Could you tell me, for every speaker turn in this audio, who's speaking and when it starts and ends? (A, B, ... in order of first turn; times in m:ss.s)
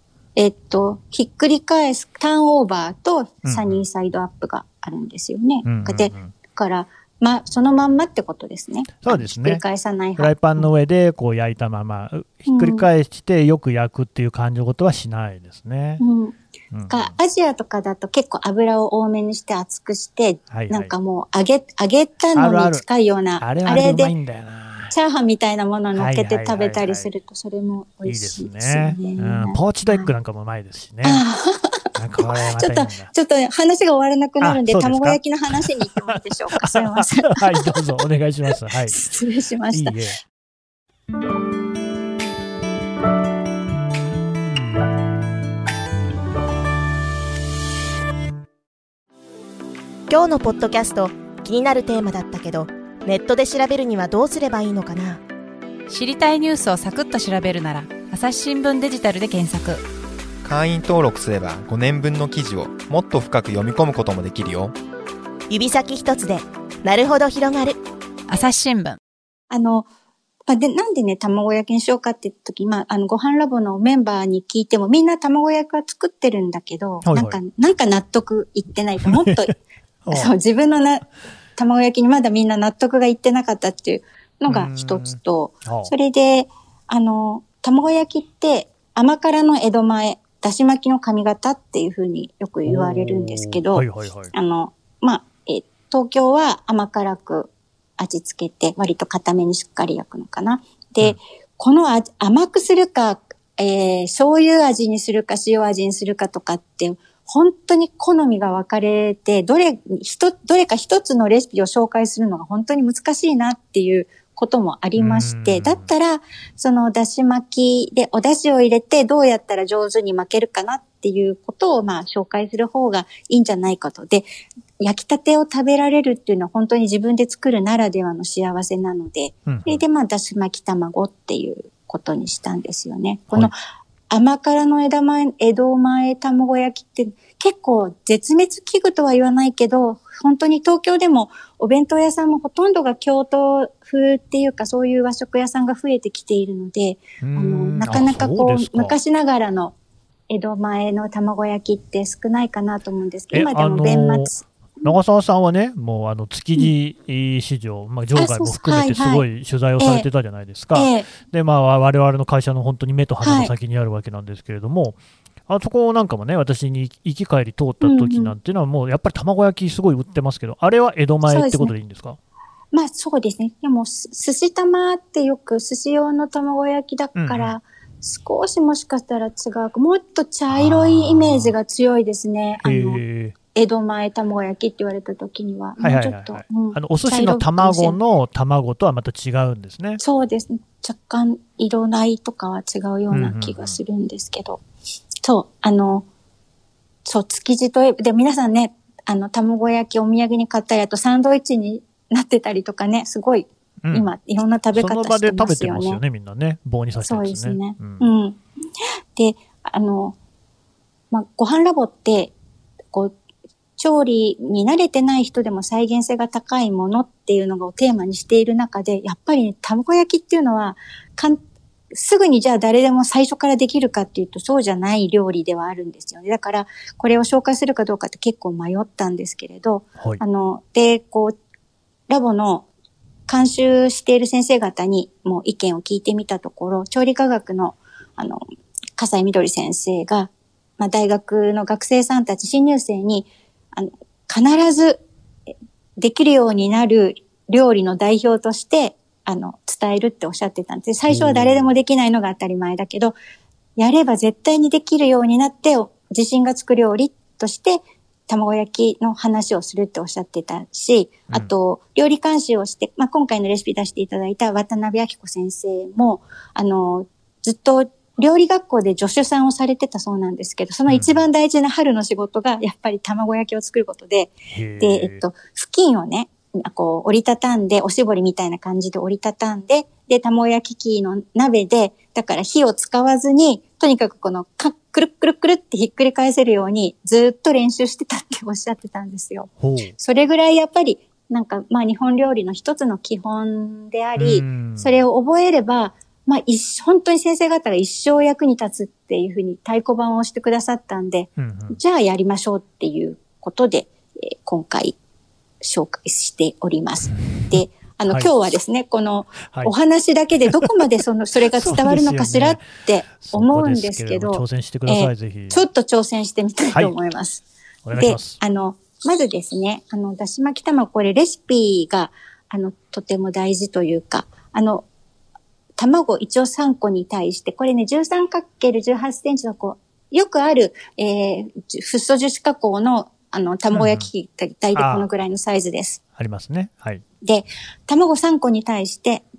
0:00.4-0:10.7 A
0:03.4-0:03.8 B
0:05.6-0:06.3 B
0:09.0-0:09.6 B
0:10.2-0:16.0 B
0:12.5-0:12.9 A
0:16.0-0:16.4 A
0:16.7-0:17.1 B
0:16.9-0:24.2 A
0:20.5-0:20.9 B
0:22.3-0:22.8 B
0:23.4-0:24.9 B
0:24.9-0:30.1 A
0:26.0-0:27.1 B
0:28.0-0:31.2 B
0:31.0-0:37.8 A
0:32.0-0:33.1 B
0:34.4-0:39.0 B
0:38.9-0:40.0 A
0:39.7-0:40.2 B
0:50.1-0:55.2 C
0:55.9-0:59.8 D
1:00.4-1:04.8 E
1:05.5-1:07.8 C
1:08.3-1:09.0 D
1:09.5-1:09.9 A
1:10.5-1:19.5 A
1:17.0-1:17.4 B
1:19.0-1:19.5 B
1:20.0-1:20.3 B
1:20.1-2:04.3 A
1:24.5-1:25.9 B
1:32.7-1:34.3 B
1:55.0-1:55.9 B
2:04.8-2:13.6 A
2:09.5-2:09.8 B
2:14.1-2:29.8 A
2:27.2-2:29.0 B
2:30.3-2:34.9 A
2:33.3-2:34.3 B
2:34.8-2:52.2 B
2:38.2-2:39.2 A
2:39.8-2:40.1 A
2:40.7-2:41.1 A
2:43.2-2:43.5 A
2:47.8-2:48.4 A
2:51.3-2:51.7 A
2:52.7-3:03.0 A
2:57.2-2:57.6 B
3:00.5-3:01.5 B
3:02.6-3:03.4 B
3:03.5-3:08.0 A
3:05.8-3:10.0 B
3:10.0-3:14.6 A
3:13.1-3:13.8 B
3:15.2-3:16.1 A
3:17.0-3:26.0 A
3:23.8-3:24.1 B
3:24.8-3:28.1 B
3:27.0-3:28.4 A
3:29.2-3:30.2 A
3:31.1-3:32.3 A
3:33.8-3:41.4 A
3:41.9-3:51.4 A
3:52.1-3:52.7 A
3:53.3-3:58.4 A
3:59.0-4:05.0 A
4:06.0-4:13.2 A
4:11.1-4:11.7 B
4:13.8-5:05.0 A
4:30.9-4:31.2 B
4:34.5-4:35.2 B
4:49.6-4:50.0 B
4:54.2-4:55.0 B
5:01.4-5:01.8 B
5:05.6-5:17.4 A
5:07.1-5:08.3 B
5:09.4-5:09.7 B
5:11.5-5:12.7 B
5:13.2-5:15.7 B
5:17.8-5:18.4 B
5:18.0-5:24.8 A
5:25.8-5:36.0 A
5:33.7-5:34.1 B
5:34.8-5:35.1 B
5:36.2-5:37.0 B
5:37.2-5:39.2 A